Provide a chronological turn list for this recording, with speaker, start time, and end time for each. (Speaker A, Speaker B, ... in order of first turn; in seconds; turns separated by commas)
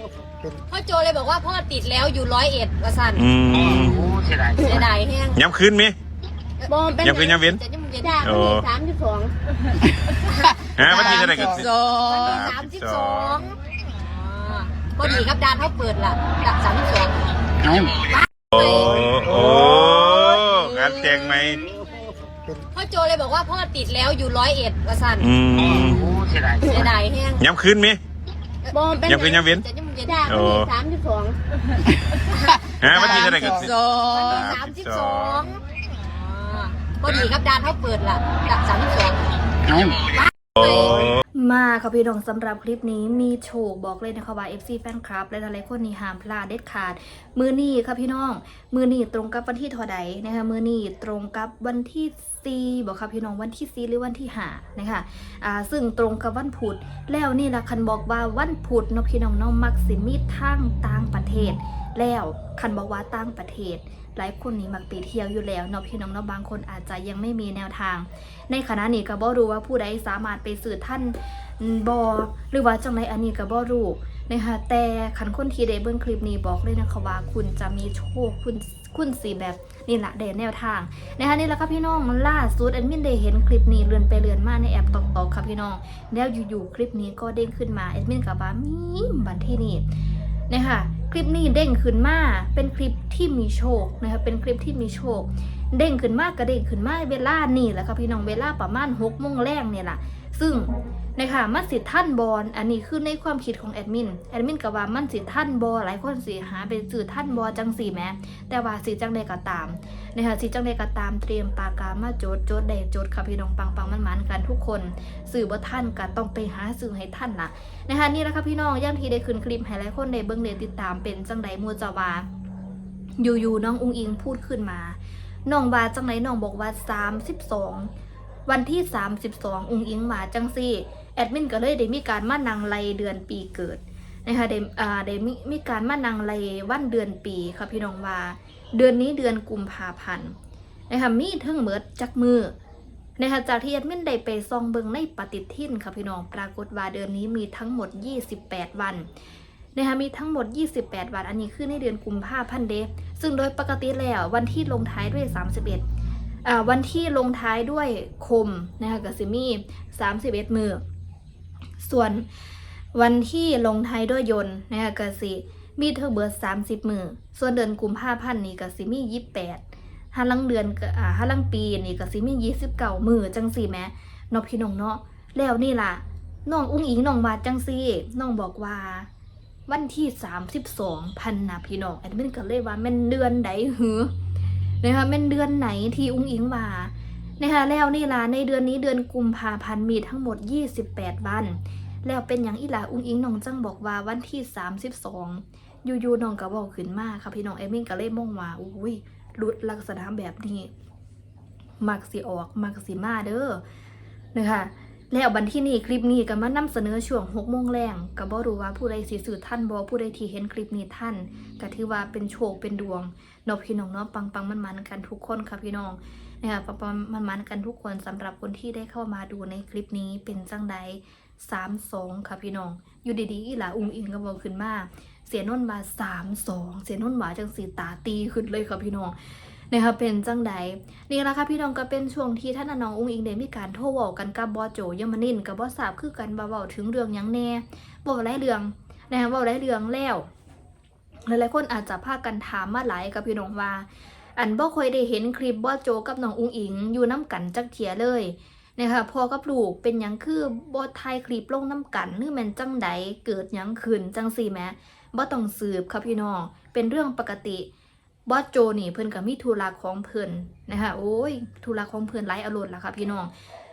Speaker A: 0.7-3.2, Speaker B: 3.1-4.1, Speaker C: 3.6-4.8, Speaker A: 4.6-5.4, Speaker B: 5.3-6.0, Speaker D: 6.7-9.3, Speaker B: 7.0-7.6, Speaker A: 7.5-8.2, Speaker B: 8.2-8.7, Speaker B: 10.8-13.4, Speaker A: 10.9-17.1, Speaker D: 11.0-12.2, Speaker A: 17.9-19.1, Speaker B: 18.5-21.6, Speaker A: 22.7-25.3, Speaker B: 25.2-26.1, Speaker C: 25.7-26.9, Speaker A: 26.9-27.4, Speaker B: 27.4-28.0, Speaker D: 28.7-29.4, Speaker B: 29.0-29.6, Speaker A: 29.4-30.4, Speaker D: 30.1-31.4, Speaker B: 30.2-30.7, Speaker B: 32.8-35.5, Speaker A: 32.9-39.2, Speaker D: 33.3-34.3, Speaker A: 39.9-41.1, Speaker B: 40.6-41.1, Speaker E: 41.3-89.8, Speaker E: 90.5-122.3, Speaker E: 123.2-127.9, Speaker E: 128.5-140.3, Speaker E: 140.9-142.5, Speaker E: 143.2-149.1, Speaker E: 149.7-155.8, Speaker E: 156.4-160.8, Speaker E: 161.8-162.3, Speaker E: 162.9-169.6, Speaker E: 170.1-179.1, Speaker E: 179.7-184.1, Speaker E: 184.8-200.7, Speaker E: 201.8-203.6, Speaker E: 204.3-229.2, Speaker E: 229.7-240.3, Speaker E: 241.2-257.7, Speaker E: 258.3-263.3